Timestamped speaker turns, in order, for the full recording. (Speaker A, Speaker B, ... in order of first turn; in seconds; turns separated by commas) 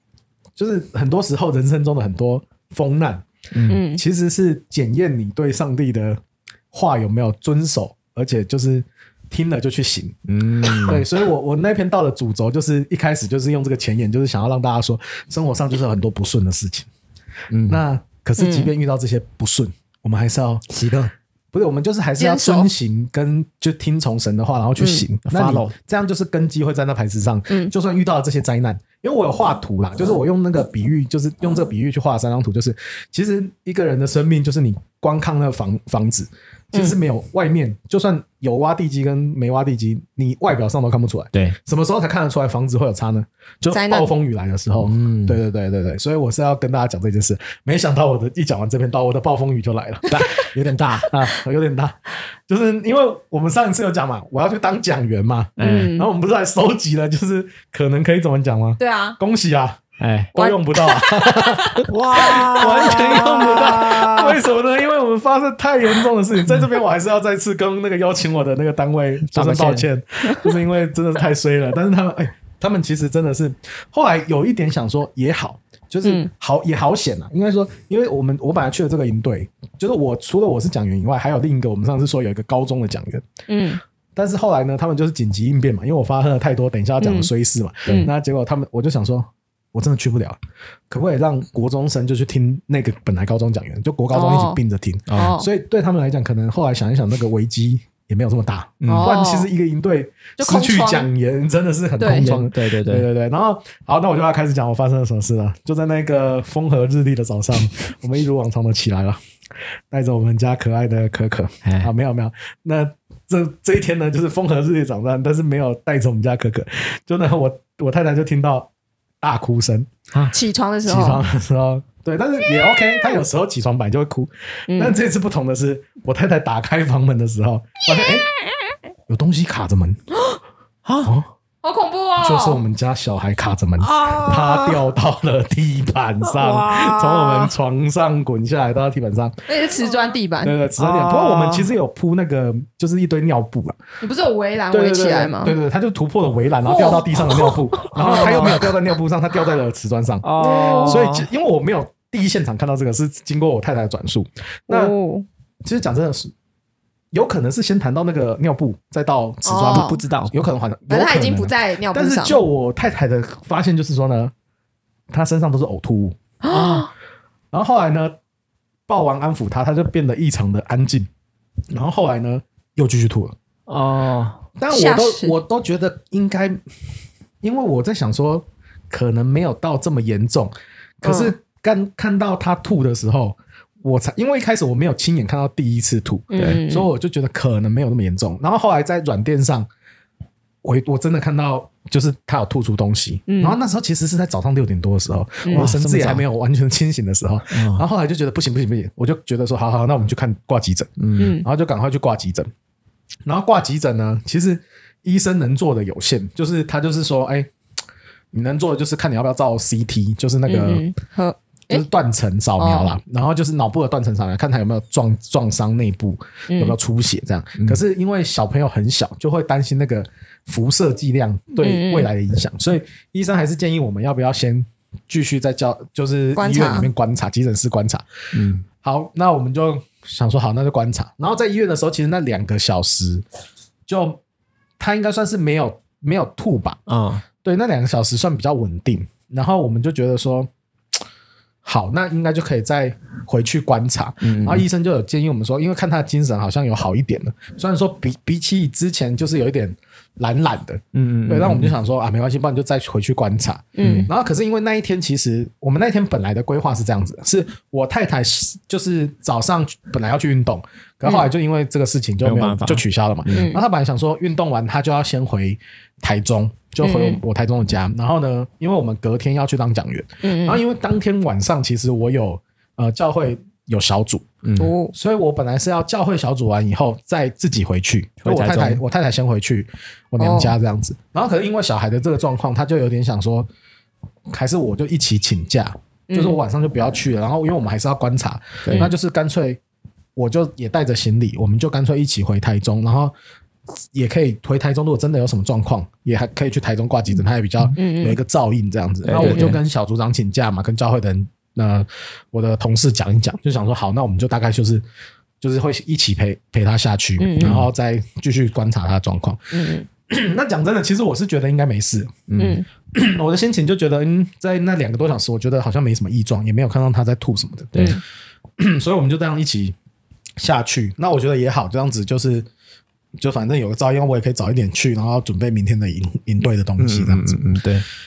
Speaker A: 0.6-3.3, Speaker B: 3.5-3.8, Speaker C: 3.7-4.0, Speaker A: 3.8-6.2, Speaker A: 6.7-10.2, Speaker B: 10.3-11.1, Speaker A: 10.7-16.9, Speaker B: 17.5-17.8, Speaker A: 17.7-20.6, Speaker C: 18.4-18.7, Speaker B: 20.7-21.1, Speaker A: 21.5-50.5, Speaker C: 22.2-22.7, Speaker B: 25.2-25.8, Speaker C: 43.7-44.1, Speaker B: 44.8-45.4, Speaker B: 50.1-51.1, Speaker A: 51.0-59.8, Speaker B: 55.6-56.0, Speaker C: 55.6-56.1, Speaker C: 58.8-59.2, Speaker B: 60.0-60.3, Speaker A: 60.3-83.3, Speaker C: 60.4-63.7, Speaker B: 61.9-64.4, Speaker B: 69.3-69.9, Speaker C: 83.5-83.8, Speaker A: 84.2-90.4, Speaker C: 87.0-87.3, Speaker A: 90.9-109.2, Speaker C: 94.1-94.6, Speaker B: 95.1-95.4, Speaker C: 95.1-95.5, Speaker B: 98.8-99.1, Speaker C: 98.9-99.5, Speaker C: 100.4-101.1, Speaker C: 102.0-102.3, Speaker B: 102.1-103.1, Speaker A: 109.9-118.7, Speaker B: 111.6-111.9, Speaker A: 119.2-119.9, Speaker C: 120.3-121.2, Speaker A: 120.9-128.3, Speaker C: 124.7-125.0, Speaker A: 129.1-130.0, Speaker B: 130.8-131.1, Speaker A: 131.0-131.3, Speaker C: 131.6-132.6, Speaker A: 132.2-139.4, Speaker B: 133.8-134.8, Speaker B: 136.3-137.5, Speaker C: 139.5-140.6, Speaker A: 140.4-143.8, Speaker B: 140.8-141.7, Speaker C: 144.0-145.6, Speaker A: 144.7-150.3, Speaker C: 146.7-148.6, Speaker B: 148.0-148.7, Speaker B: 150.2-151.3, Speaker C: 150.4-151.0, Speaker A: 150.8-154.9, Speaker C: 154.7-155.3, Speaker A: 155.7-156.3, Speaker A: 157.1-164.3, Speaker C: 159.5-160.0, Speaker B: 159.7-160.4, Speaker C: 160.9-162.4, Speaker A: 165.1-166.2, Speaker C: 166.4-166.9, Speaker B: 166.5-166.9, Speaker A: 167.5-168.2, Speaker A: 168.9-171.1, Speaker A: 171.7-173.3, Speaker B: 173.7-174.4, Speaker A: 174.6-176.6, Speaker C: 174.7-175.3, Speaker A: 177.4-189.7, Speaker C: 181.0-181.3, Speaker C: 186.3-186.9, Speaker B: 186.4-186.6, Speaker A: 190.6-202.5, Speaker C: 193.3-193.6, Speaker B: 195.5-196.2, Speaker B: 197.5-197.8, Speaker B: 201.0-201.4, Speaker C: 201.2-201.5, Speaker A: 203.3-207.5, Speaker A: 208.3-210.8, Speaker C: 210.5-211.8, Speaker A: 211.7-228.0, Speaker C: 212.6-212.9, Speaker C: 216.5-216.8, Speaker C: 221.6-222.1, Speaker C: 226.4-226.9, Speaker B: 228.3-228.7, Speaker A: 228.8-233.2, Speaker A: 233.9-234.2, Speaker A: 234.8-236.8, Speaker B: 236.9-237.2, Speaker A: 237.4-240.5, Speaker A: 241.6-274.3, Speaker B: 244.2-244.7, Speaker B: 250.9-251.8, Speaker C: 253.8-254.1, Speaker B: 253.8-254.1, Speaker B: 262.2-263.5, Speaker C: 263.3-263.6, Speaker C: 266.8-267.2, Speaker C: 270.2-270.6, Speaker B: 274.4-274.7, Speaker C: 274.6-274.9, Speaker A: 274.9-283.5, Speaker B: 278.2-278.8, Speaker C: 280.2-280.6, Speaker A: 284.3-289.6, Speaker C: 286.1-286.4, Speaker B: 288.6-288.9, Speaker A: 290.2-293.1, Speaker A: 293.9-304.8, Speaker C: 297.8-298.2, Speaker B: 299.0-299.6, Speaker C: 299.2-299.5, Speaker A: 305.4-309.5, Speaker C: 307.2-307.6, Speaker B: 307.4-307.7, Speaker C: 309.5-309.9, Speaker A: 310.1-312.3, Speaker B: 312.3-312.6, Speaker C: 312.4-312.6, Speaker A: 312.9-317.9, Speaker B: 317.7-318.0, Speaker A: 318.6-319.8, Speaker A: 320.4-322.5, Speaker A: 323.2-327.4, Speaker B: 326.8-327.9